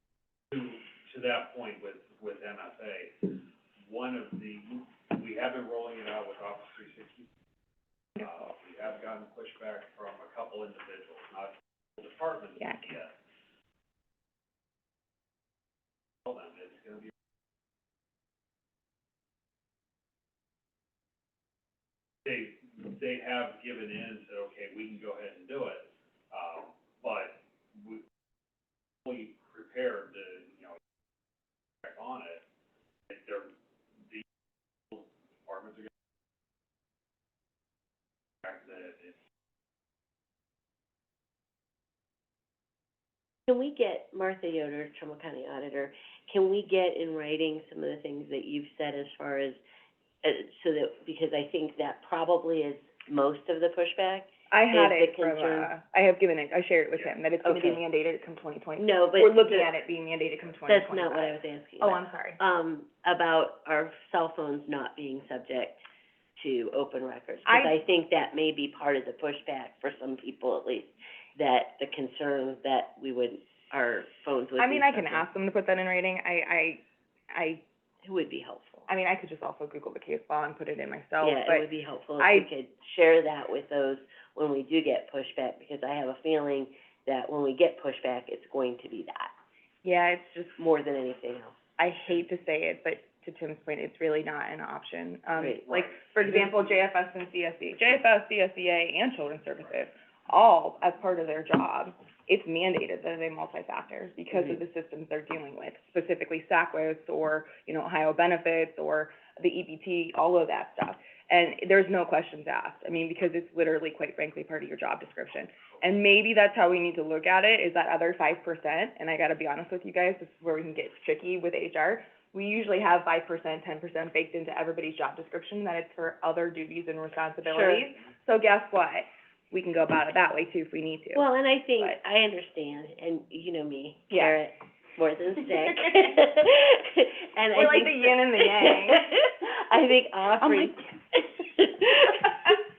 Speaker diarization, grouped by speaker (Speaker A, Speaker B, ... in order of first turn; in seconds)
Speaker A: 0.5-7.2, 8.2-13.1, 16.2-17.1, 22.2-28.0, 29.0-30.8, 31.8-32.4, 33.1-33.5, 34.9-35.9, 38.4-39.1
Speaker B: 43.5-49.6, 50.2-55.7, 57.4-57.8, 58.8-59.7, 60.7-65.8, 66.4-75.3, 78.0-78.9, 81.2-89.3, 90.6-91.6, 95.3-96.2, 104.3-104.6, 127.4-127.9, 131.1-142.6
Speaker C: 54.5-62.4, 67.4-67.8, 74.6-77.6, 78.9-81.7, 82.2-82.5, 89.8-90.5, 91.8-131.2, 134.1-134.4, 137.5-139.1